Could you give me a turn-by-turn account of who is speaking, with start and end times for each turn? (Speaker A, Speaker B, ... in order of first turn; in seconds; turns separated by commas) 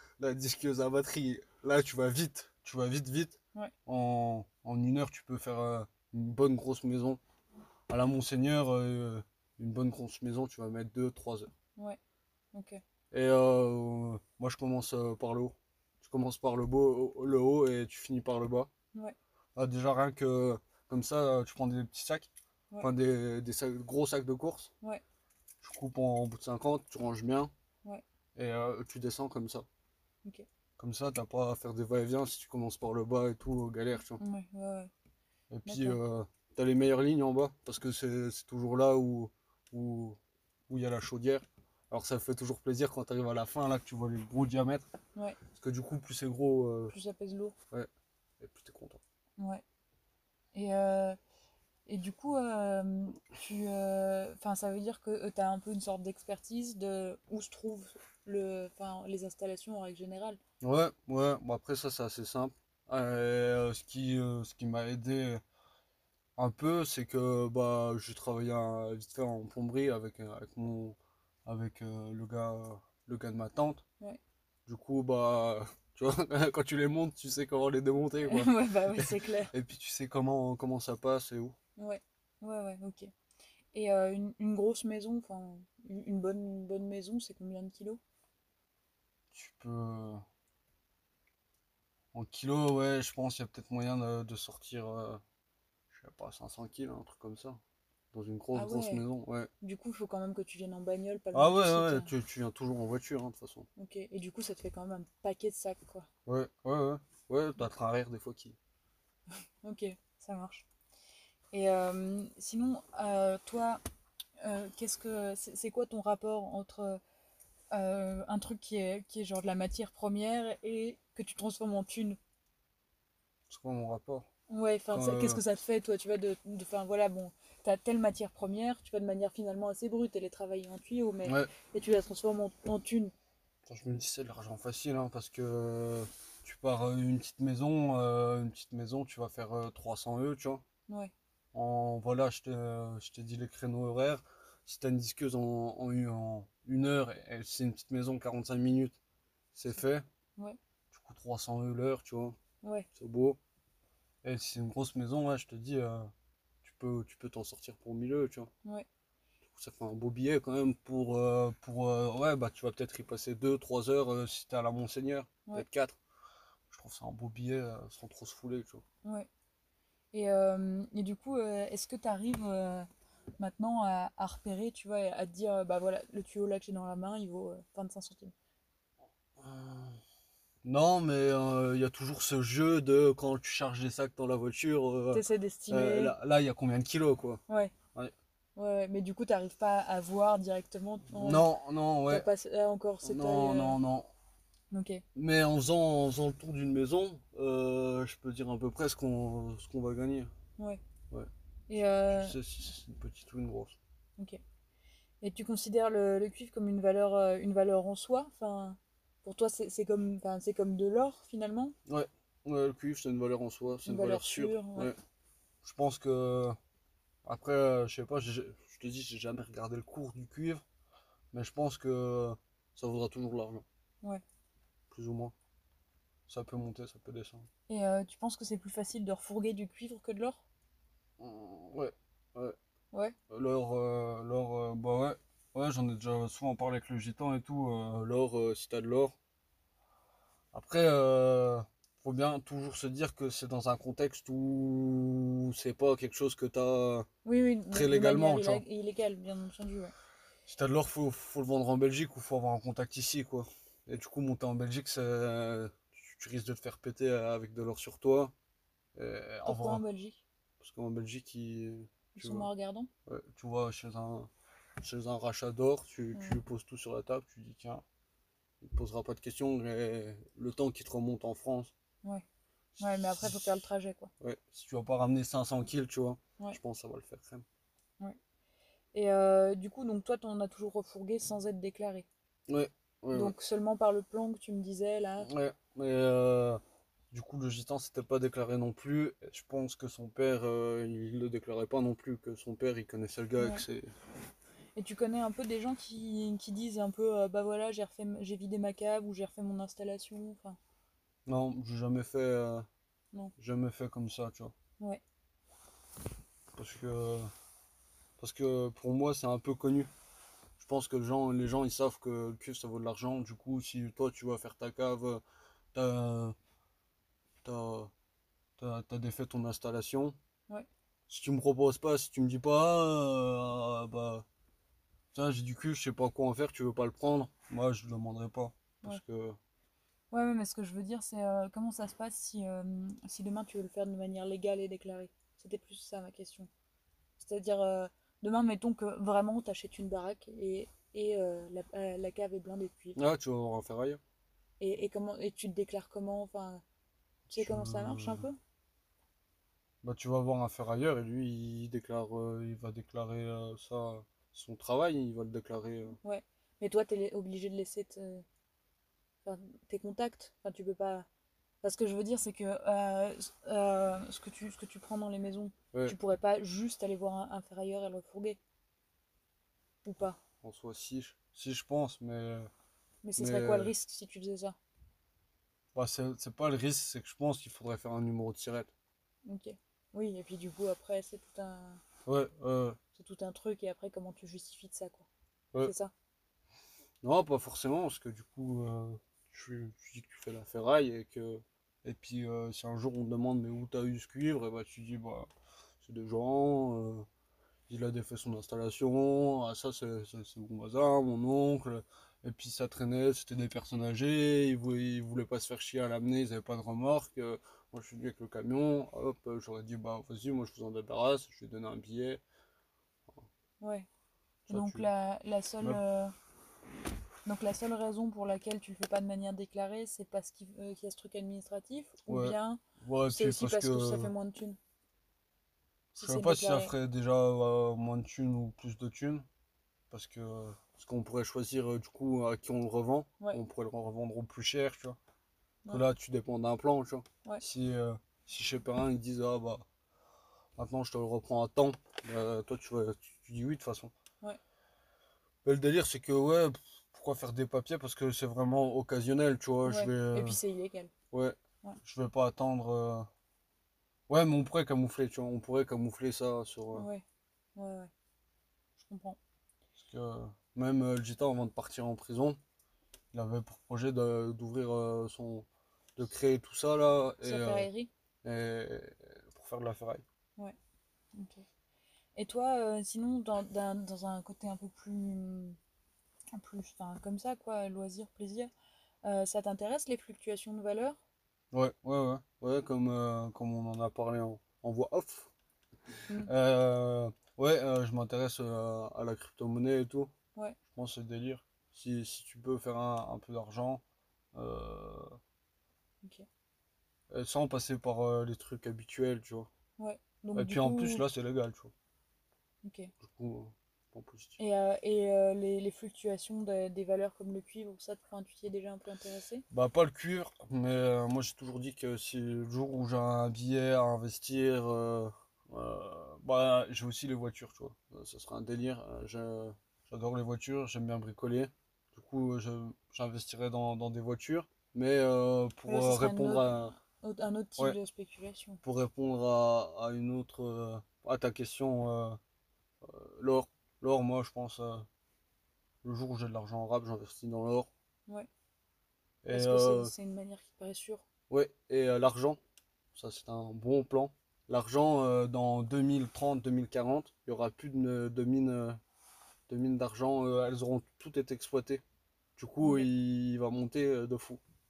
Speaker A: 0.2-7.2, Speaker A: 7.9-11.5, Speaker B: 12.5-12.8, Speaker A: 13.1-18.7, Speaker A: 19.6-22.3, Speaker A: 22.8-24.7, Speaker A: 25.6-27.5, Speaker A: 28.4-29.7, Speaker A: 30.8-34.2, Speaker B: 34.2-34.9, Speaker A: 35.5-44.9, Speaker B: 35.7-36.0, Speaker A: 45.5-46.9, Speaker B: 46.9-47.5, Speaker A: 48.4-49.0, Speaker B: 49.4-49.6, Speaker B: 50.5-51.2, Speaker B: 51.9-60.4, Speaker A: 60.6-65.4, Speaker A: 66.4-73.8, Speaker A: 74.7-81.6, Speaker B: 78.2-79.5, Speaker B: 81.8-83.1, Speaker B: 83.7-88.0, Speaker A: 89.3-90.2, Speaker A: 92.1-95.2, Speaker A: 95.9-97.6, Speaker A: 98.1-99.5, Speaker B: 98.5-99.0, Speaker B: 99.6-102.1, Speaker A: 101.3-103.7, Speaker B: 103.8-106.1, Speaker A: 106.3-108.6, Speaker B: 109.6-110.7, Speaker B: 111.5-113.8, Speaker B: 114.4-117.0, Speaker B: 117.7-122.2, Speaker A: 123.5-124.3, Speaker B: 124.5-133.1, Speaker A: 124.9-125.4, Speaker A: 131.2-131.5, Speaker A: 133.7-140.6, Speaker A: 141.5-149.0, Speaker A: 149.6-150.1, Speaker A: 150.9-152.4, Speaker B: 152.6-152.9, Speaker A: 152.9-153.4, Speaker A: 154.2-156.1, Speaker A: 156.6-158.5, Speaker A: 159.5-166.0, Speaker A: 166.7-168.8, Speaker B: 170.1-172.9, Speaker B: 173.4-178.3, Speaker A: 179.4-180.0, Speaker A: 180.7-187.4, Speaker B: 185.1-186.2, Speaker B: 187.5-187.7, Speaker B: 188.6-191.5, Speaker A: 191.1-192.3, Speaker B: 192.1-193.8, Speaker A: 193.0-194.1, Speaker B: 194.7-195.0, Speaker A: 195.2-200.3, Speaker B: 201.7-202.4, Speaker A: 202.1-203.8, Speaker B: 205.2-211.8, Speaker A: 211.9-215.0, Speaker B: 213.8-214.9, Speaker A: 215.6-216.6, Speaker A: 217.2-220.6, Speaker A: 221.3-223.7, Speaker A: 224.9-225.3, Speaker A: 226.3-227.5, Speaker B: 227.7-230.4, Speaker A: 231.2-232.6, Speaker A: 233.3-239.2, Speaker A: 240.5-247.1, Speaker B: 247.2-249.9, Speaker A: 247.7-248.6, Speaker A: 250.5-258.3, Speaker A: 259.0-259.8, Speaker B: 259.4-260.2, Speaker A: 260.6-262.5, Speaker B: 262.1-262.9, Speaker A: 263.1-264.3, Speaker A: 264.8-267.8, Speaker B: 266.1-266.4, Speaker A: 268.6-271.7, Speaker A: 272.8-273.6, Speaker B: 272.8-274.1, Speaker A: 274.2-277.4, Speaker B: 278.9-282.1, Speaker A: 282.5-283.4, Speaker B: 283.1-285.3, Speaker A: 285.2-286.6, Speaker A: 287.1-293.9, Speaker B: 293.4-293.6, Speaker B: 294.8-300.6, Speaker A: 301.3-302.7, Speaker A: 303.4-304.5, Speaker A: 306.5-307.3, Speaker A: 308.2-309.9, Speaker A: 310.6-315.2, Speaker A: 315.7-316.4, Speaker A: 317.4-317.9, Speaker A: 318.6-320.2, Speaker A: 321.1-324.2, Speaker A: 325.1-329.4, Speaker B: 330.1-336.5, Speaker B: 337.2-343.0, Speaker A: 342.9-344.0, Speaker B: 344.6-346.6, Speaker A: 347.3-348.3, Speaker B: 347.3-348.4, Speaker A: 349.8-356.0, Speaker B: 356.0-358.2, Speaker B: 359.2-361.1, Speaker B: 361.6-368.4, Speaker B: 369.9-370.2, Speaker A: 370.4-372.5, Speaker B: 373.0-374.6, Speaker A: 373.2-373.7, Speaker A: 375.8-378.7, Speaker B: 379.2-381.8, Speaker A: 382.1-382.8, Speaker B: 383.0-385.1, Speaker B: 385.6-385.9, Speaker A: 387.0-395.3, Speaker A: 395.8-397.1, Speaker A: 397.7-412.2, Speaker B: 413.6-413.9, Speaker B: 414.5-416.1, Speaker A: 414.5-414.9, Speaker B: 417.2-424.6, Speaker A: 422.1-424.1, Speaker A: 425.9-429.2, Speaker B: 426.0-426.7, Speaker A: 429.9-435.0, Speaker A: 435.7-439.6, Speaker A: 440.6-443.9, Speaker A: 445.4-450.4, Speaker B: 449.6-450.9, Speaker A: 451.1-453.1, Speaker A: 454.1-456.9, Speaker B: 456.8-457.0, Speaker B: 457.6-457.9, Speaker B: 458.8-459.2, Speaker A: 459.8-462.4, Speaker A: 463.1-465.5, Speaker A: 466.0-467.7, Speaker B: 467.2-467.9, Speaker A: 468.2-470.0, Speaker B: 471.1-471.4, Speaker B: 472.2-475.6, Speaker B: 476.3-478.5, Speaker B: 479.0-481.0, Speaker A: 481.5-485.3, Speaker A: 486.3-490.1, Speaker A: 490.7-493.8, Speaker A: 494.4-495.2, Speaker A: 497.1-499.5, Speaker B: 499.8-501.0, Speaker A: 500.4-501.7, Speaker B: 502.6-502.9, Speaker A: 503.0-504.4, Speaker B: 504.4-509.4, Speaker A: 509.5-526.8, Speaker B: 525.7-528.6, Speaker A: 528.6-532.2, Speaker A: 532.8-534.9, Speaker A: 535.8-537.7, Speaker A: 539.2-539.9, Speaker B: 539.3-541.1, Speaker A: 541.3-542.4, Speaker A: 543.0-548.8, Speaker A: 549.5-551.8, Speaker A: 552.4-554.4, Speaker B: 552.6-552.9